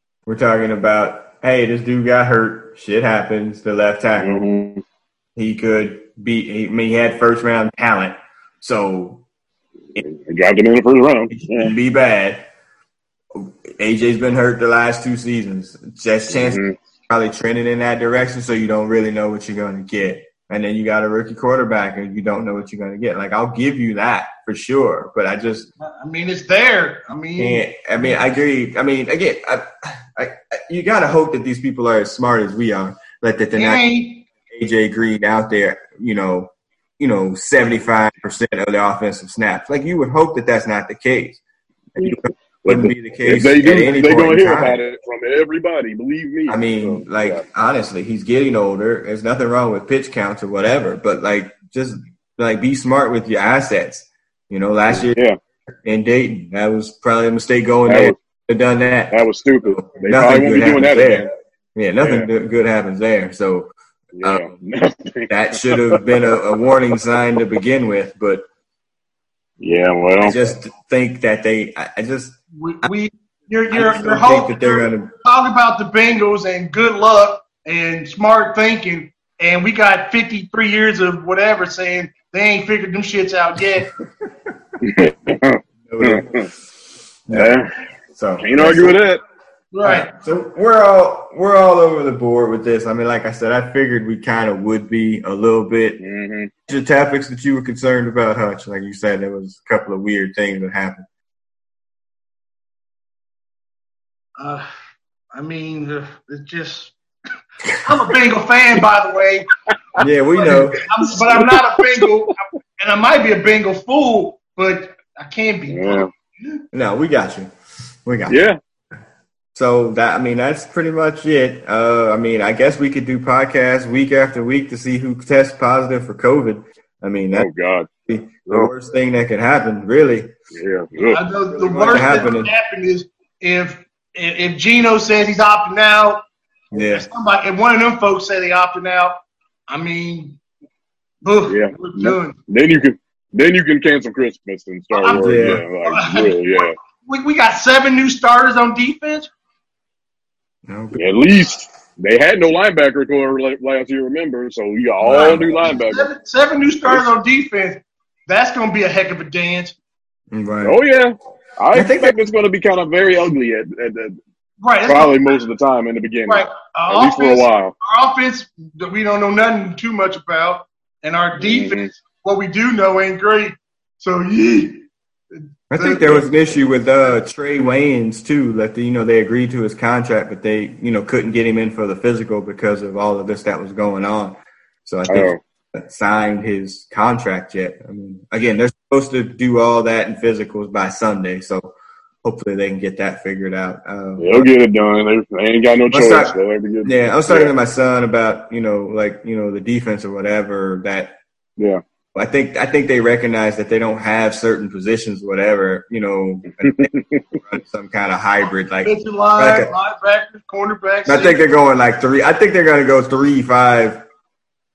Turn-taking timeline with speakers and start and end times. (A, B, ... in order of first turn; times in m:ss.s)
0:00.2-0:04.4 A
0:04.2-0:04.8 B
0:05.4-0:09.2 A
0:10.0-0:11.7 B
0:11.3-0:12.5 A
0:13.3-0:25.7 A
0:16.4-0:16.7 B
0:25.8-0:27.7 C
0:27.4-0:33.8 A
0:33.5-0:34.2 C
0:34.5-0:41.4 A
0:42.0-0:44.8 A
0:42.0-0:47.4 B
0:46.5-0:55.2 A
0:54.9-0:55.4 B
0:55.8-1:04.5 A
0:57.9-0:58.1 B
0:59.1-1:01.3 B
1:02.0-1:02.3 B
1:04.2-1:06.2 B
1:05.3-1:08.4 A
1:09.6-1:10.3 B
1:10.2-1:12.9 A
1:12.6-1:23.9 C
1:13.7-1:15.1 A
1:24.8-1:26.5 B
1:25.9-1:26.5 A
1:27.3-1:27.6 A
1:27.3-1:27.7 B
1:28.1-1:29.0 A
1:28.4-1:29.2 B
1:29.7-1:30.1 C
1:29.8-1:36.0 A
1:36.0-1:36.5 B
1:36.7-1:41.0 A
1:44.4-1:44.6 C
1:45.3-1:46.9 C
1:47.8-1:49.5 C
1:50.0-1:50.8 A
1:50.0-1:52.1 B
1:50.3-1:56.5 C
1:55.7-1:56.1 B
1:56.7-1:57.5 A
1:58.0-1:58.4 A
1:58.3-1:58.6 B
1:59.5-2:07.5 A
2:07.3-2:07.9 B
2:08.1-2:10.3 A
2:10.5-2:12.3 B
2:11.0-2:16.2 C
2:11.8-2:12.5 A
2:16.7-2:17.0 A
2:16.8-2:19.2 C
2:19.7-2:20.4 C
2:21.2-2:22.4 C
2:21.5-2:26.7 B
2:24.9-2:29.3 C
2:25.2-2:25.6 A
2:30.7-2:31.0 A
2:30.9-2:36.1 B
2:35.0-2:35.6 A
2:35.0-2:39.8 C
2:40.3-2:40.8 A
2:40.6-2:44.2 B
2:41.7-2:42.2 A
2:44.6-2:45.2 C
2:44.8-2:47.7 B
2:46.3-2:56.2 C
2:51.4-2:51.9 B
2:55.7-3:14.5 A
3:05.1-3:05.4 B
3:14.2-3:17.5 B
3:15.9-3:21.2 A
3:22.1-3:29.7 A
3:26.6-3:27.3 B
3:28.8-3:31.4 C
3:31.0-3:34.0 A